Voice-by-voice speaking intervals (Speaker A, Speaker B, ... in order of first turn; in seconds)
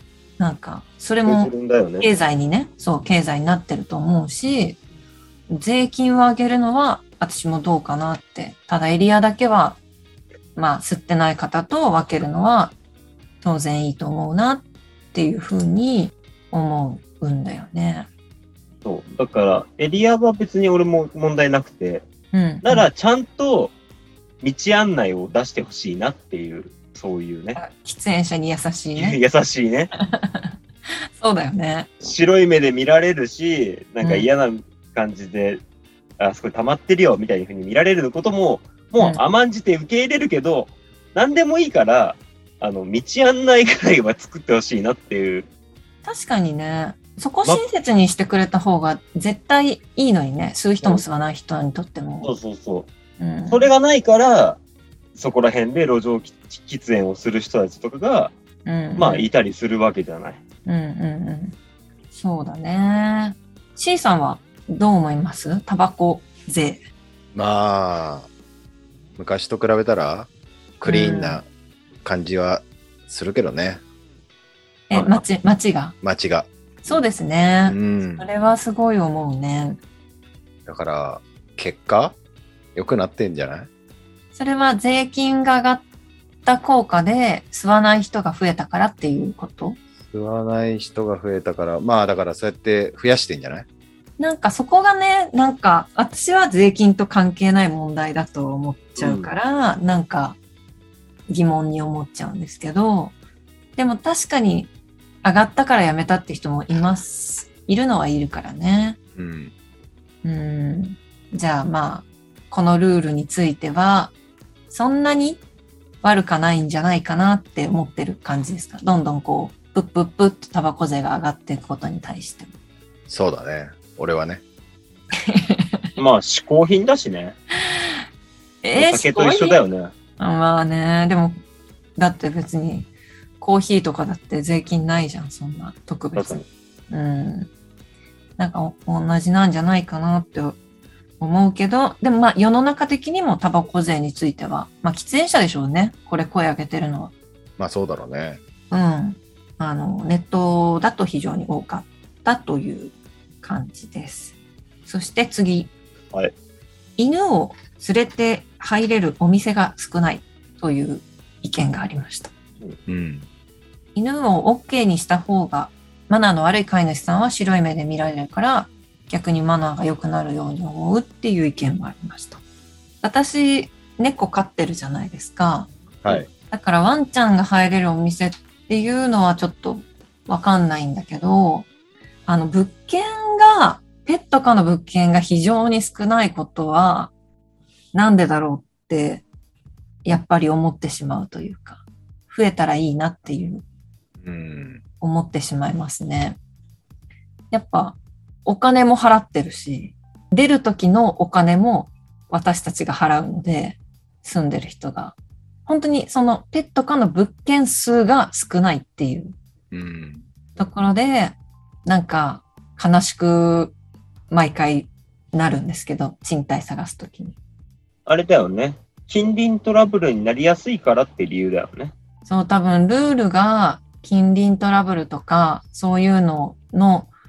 Speaker A: 0.4-4.8, 5.5-9.8, 10.6-12.8, 13.4-18.1, 22.3-22.9, 27.6-29.2, 30.0-30.5, 31.2-31.9, 34.0-34.3, 46.0-52.3, 53.2-53.7, 58.7-59.3, 60.7-61.6, 62.1-66.8, 70.8-71.4, 74.9-76.0, 76.8-79.8, 84.3-85.8, 86.5-89.8, 94.2-100.4, 101.3-103.2, 103.8-104.7, 105.2-109.0, 110.2-114.1, 114.7-115.4, 116.0-122.5, 125.2-125.9, 127.7-128.0, 128.6-129.6, 130.2-131.4, 132.0-132.9, 133.4-137.5, 138.4-140.6, 141.2-147.1, 148.7-154.3, 154.9-155.7, 157.0-162.3, 163.9-172.4, 173.0-175.7, 176.5-181.7, 182.3-187.1, 187.9-189.2, 190.1-193.6, 195.0-196.4, 197.5-209.3, 210.6-213.8, 214.3-217.4, 222.3-227.1
Speaker B: 1.3-2.1, 18.8-22.1, 22.6-23.7, 24.4-27.6, 29.0-29.9, 32.0-35.6, 36.2-45.5, 52.2-52.9, 53.5-54.6, 55.1-58.3, 59.0-60.4, 99.0-99.3, 126.0-127.4, 128.8-129.9, 136.2-136.5, 218.1-221.9
Speaker C: 67.3-68.3, 69.2-70.3, 70.8-71.5, 72.0-73.8, 76.0-76.5, 77.7-78.3, 80.7-82.2, 82.8-83.7, 90.0-93.7, 109.2-109.5, 123.1-124.4, 147.6-148.4, 162.9-163.3, 176.0-176.3, 194.2-194.8, 209.7-210.3